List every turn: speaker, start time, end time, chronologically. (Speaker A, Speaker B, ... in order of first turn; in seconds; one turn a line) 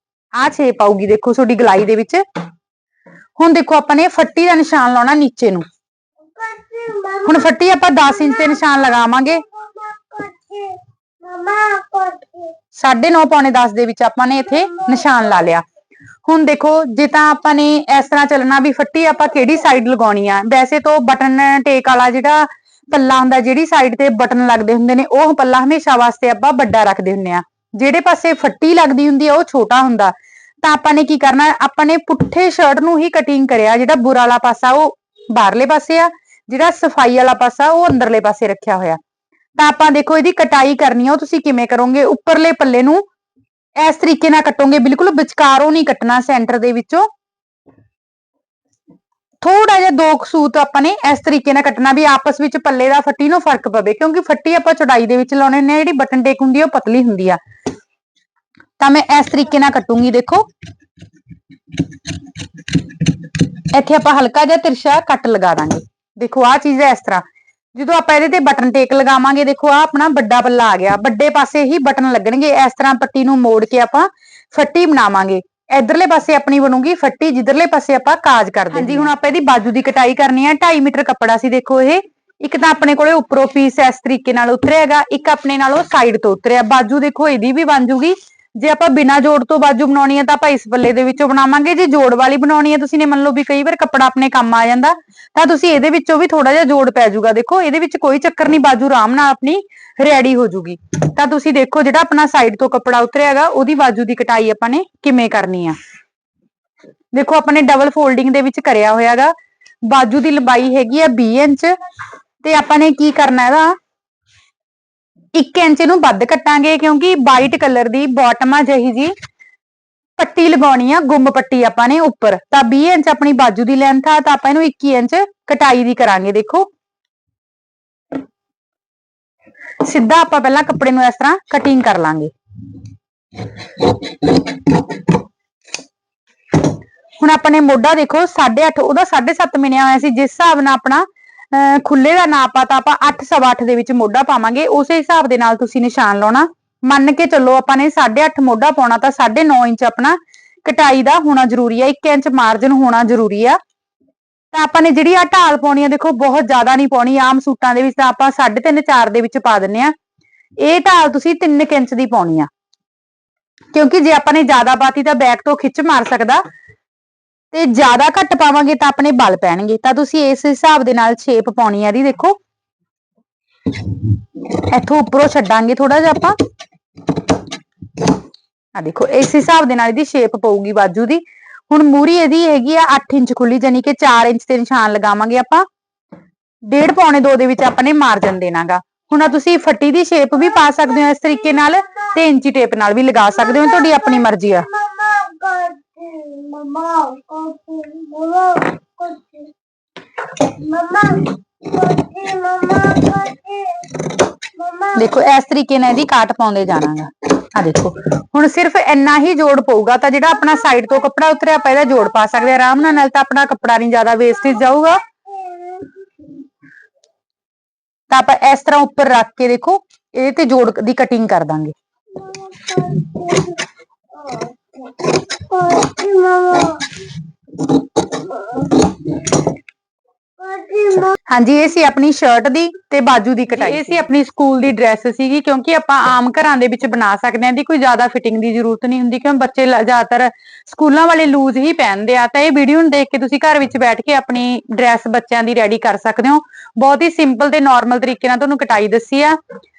Speaker A: 0.4-2.2
Speaker A: 3.4-5.6
Speaker B: 6.3-7.4
Speaker A: 7.2-9.4
Speaker B: 9.4-12.5
Speaker A: 12.7-15.6
Speaker A: 16.2-39.0
Speaker A: 39.6-43.0
Speaker A: 43.8-47.1
Speaker A: 49.4-57.4
Speaker A: 58.8-60.5
Speaker A: 63.0-67.2
Speaker A: 67.7-105.8
Speaker A: 107.1-109.3
Speaker A: 109.8-111.7
Speaker A: 112.4-113.7
Speaker A: 115.3-119.1
Speaker A: 120.2-126.7
Speaker A: 129.8-132.3
Speaker A: 133.7-134.8
Speaker A: 137.2-153.6
Speaker A: 154.5-159.9
Speaker A: 160.6-162.5
Speaker A: 163.7-166.4
Speaker A: 167.5-172.3
Speaker A: 174.0-176.3
Speaker A: 178.7-185.7
Speaker A: 186.7-194.7
Speaker B: 193.6-199.5
Speaker B: 200.3-204.9
Speaker A: 204.9-215.0
Speaker B: 214.5-216.3
Speaker A: 218.1-221.7
Speaker B: 222.1-227.0
Speaker B: 227.7-229.5
Speaker B: 230.4-231.2
Speaker A: 231.3-249.4